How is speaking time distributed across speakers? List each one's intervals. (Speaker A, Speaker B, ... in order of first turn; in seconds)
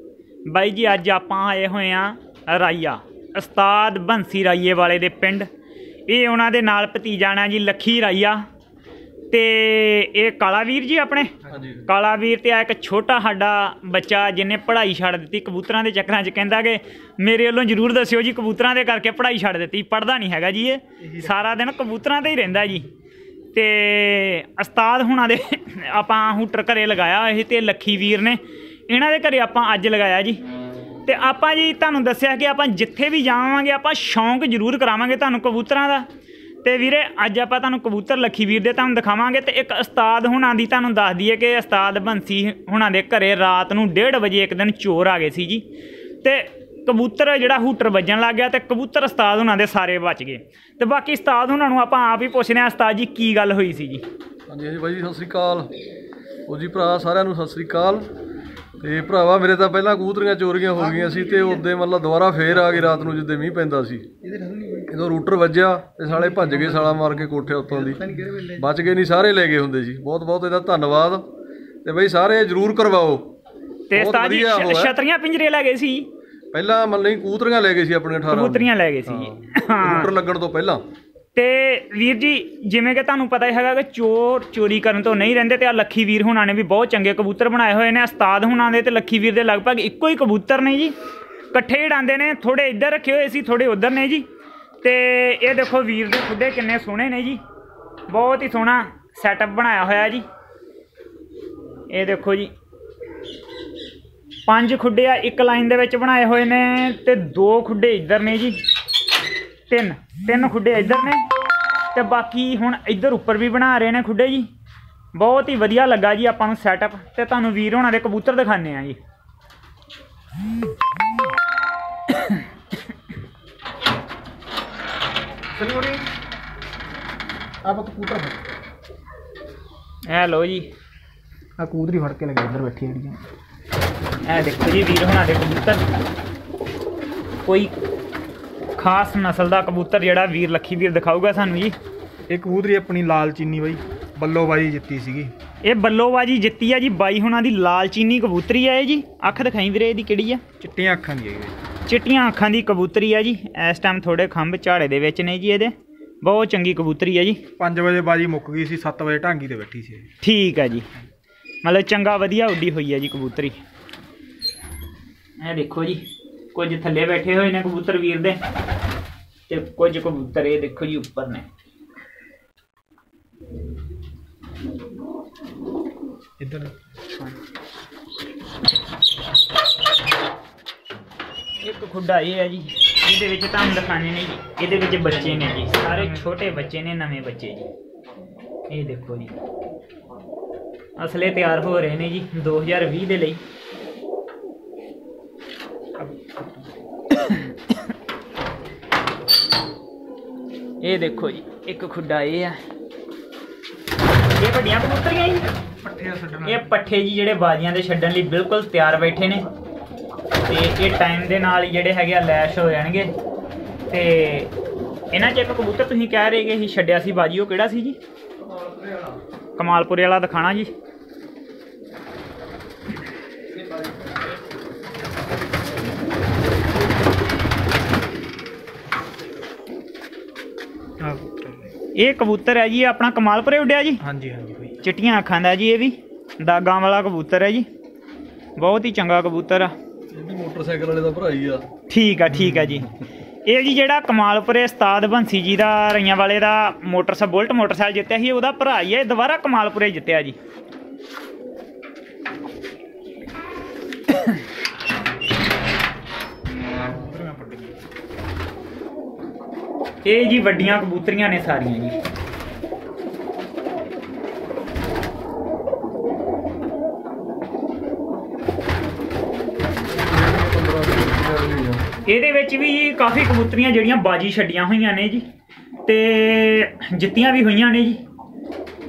Speaker A: 0.5-5.5, 6.1-8.4, 9.3-11.3, 11.8-22.9, 23.5-30.4, 31.1-36.1, 36.6-45.6, 46.2-54.0, 73.9-76.1, 78.3-80.1, 81.3-90.9, 91.5-94.2, 94.8-97.4, 98.1-100.2, 101.9-102.5, 104.5-108.6, 109.7-111.3, 111.9-114.5, 115.1-119.0, 122.1-122.5, 130.1-130.7, 134.2-135.8, 137.4-137.7, 138.8-141.7, 145.6-150.4, 151.9-157.4, 160.2-160.9, 161.6-163.6, 165.4-168.4, 169.5-171.5, 181.6-187.7, 188.7-189.3, 191.0-193.4, 197.1-197.9, 200.8-202.6, 204.4-205.5, 206.4-209.4, 210.4-213.1, 213.9-214.5, 215.1-218.0, 219.6-220.7, 231.9-234.0, 234.8-237.7, 238.6-239.7, 241.9-242.9, 243.4-250.3, 260.0-262.0, 272.0-275.3, 275.9-278.0
Speaker B: 11.5-11.8, 54.5-55.7, 56.5-58.1, 58.8-64.1, 64.8-71.2, 71.8-73.3, 73.9-74.9, 76.5-80.8, 218.4-219.2, 240.1-241.7, 269.9-271.8
Speaker C: 21.0-21.4, 125.5-126.0, 127.6-128.4, 131.6-133.2, 142.3-145.3, 150.6-151.6, 157.6-160.1, 176.4-176.7, 184.9-186.4, 196.0-196.4, 205.4-206.7, 231.0-231.7, 234.0-234.8, 242.3-242.8, 256.8-257.7